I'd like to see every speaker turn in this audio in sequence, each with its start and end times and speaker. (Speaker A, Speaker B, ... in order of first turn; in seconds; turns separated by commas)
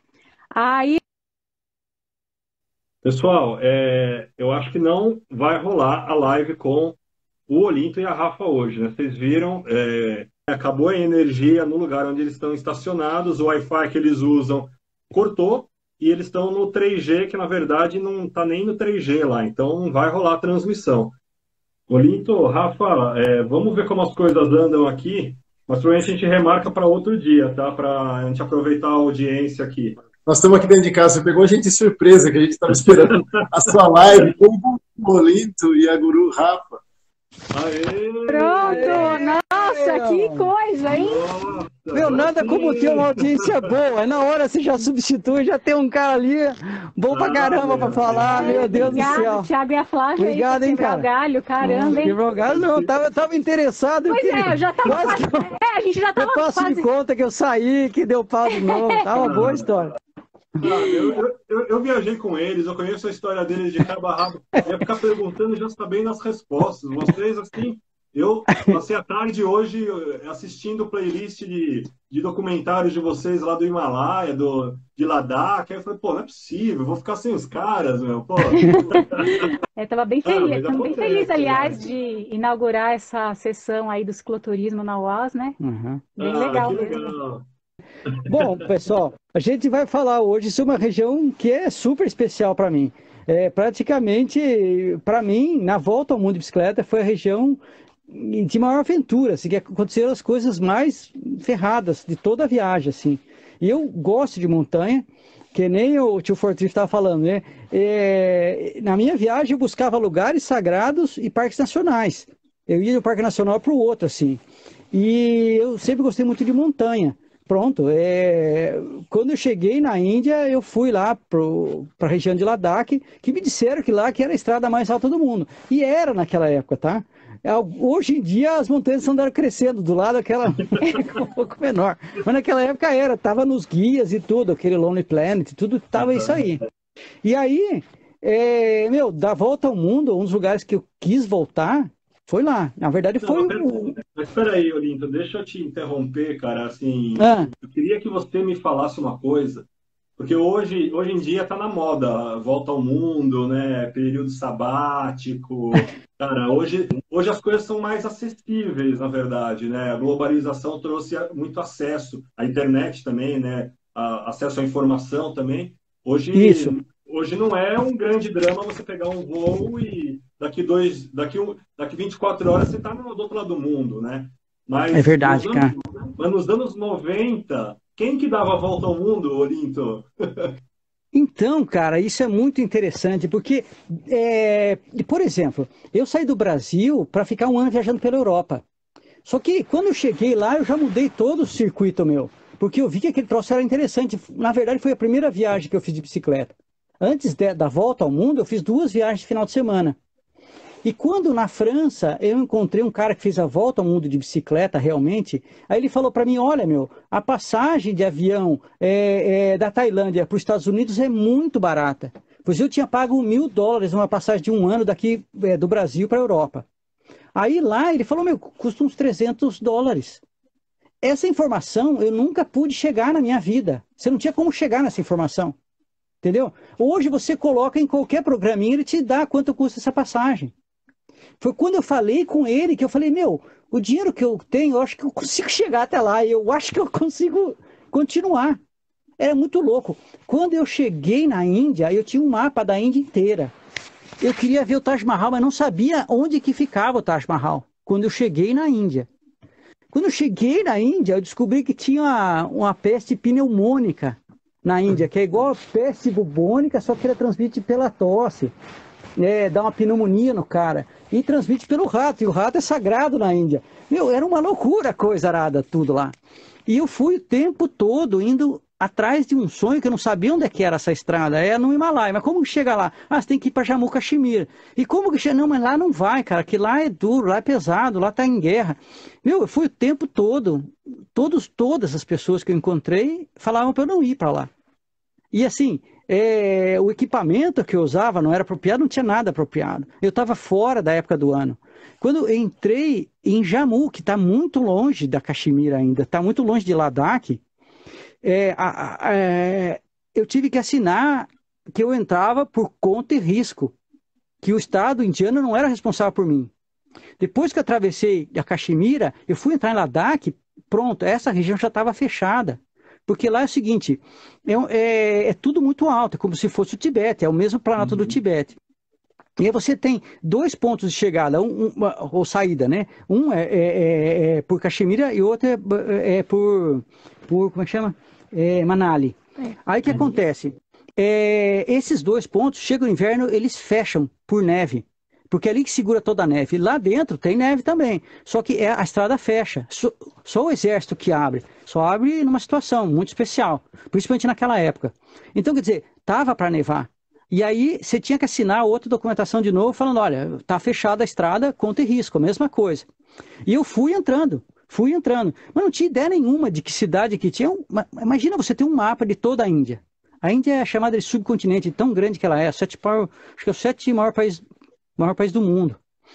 Speaker A: 0.6-1.0, Speaker B: 3.0-21.1, Speaker B: 21.9-30.0, Speaker C: 30.3-36.7, Speaker B: 32.8-33.4, Speaker B: 37.5-39.2, Speaker A: 38.3-41.3, Speaker D: 38.6-40.5, Speaker B: 40.9-43.7, Speaker D: 41.9-49.5, Speaker B: 47.1-49.2, Speaker A: 48.3-52.2, Speaker D: 50.2-51.1, Speaker D: 51.6-55.5, Speaker B: 51.8-52.9, Speaker A: 54.1-56.9, Speaker D: 56.2-60.0, Speaker A: 58.5-59.2, Speaker B: 59.2-59.9, Speaker D: 60.6-61.1, Speaker B: 60.6-79.6, Speaker D: 68.5-68.8, Speaker A: 79.8-85.5, Speaker B: 80.2-81.9, Speaker D: 85.6-86.2, Speaker B: 86.2-87.5, Speaker A: 86.2-87.0, Speaker B: 88.1-88.4, Speaker D: 88.3-114.4, Speaker D: 114.9-136.6, Speaker B: 130.6-131.1, Speaker B: 135.9-136.5, Speaker D: 137.2-144.0, Speaker B: 143.2-180.5, Speaker D: 147.2-147.5, Speaker D: 166.3-166.8, Speaker D: 174.9-175.7, Speaker D: 181.1-188.6, Speaker D: 189.2-200.0, Speaker D: 200.8-216.7, Speaker D: 217.3-220.2, Speaker D: 221.0-225.6, Speaker D: 226.2-230.5, Speaker D: 231.4-238.6, Speaker D: 239.2-243.5, Speaker D: 244.2-249.1, Speaker D: 249.9-258.5, Speaker D: 259.2-266.1, Speaker D: 266.7-284.5, Speaker D: 285.3-297.4, Speaker D: 298.2-303.7, Speaker D: 304.4-306.5, Speaker D: 307.2-318.6, Speaker B: 317.8-318.1, Speaker D: 319.4-352.9, Speaker D: 353.4-364.4, Speaker D: 365.0-365.8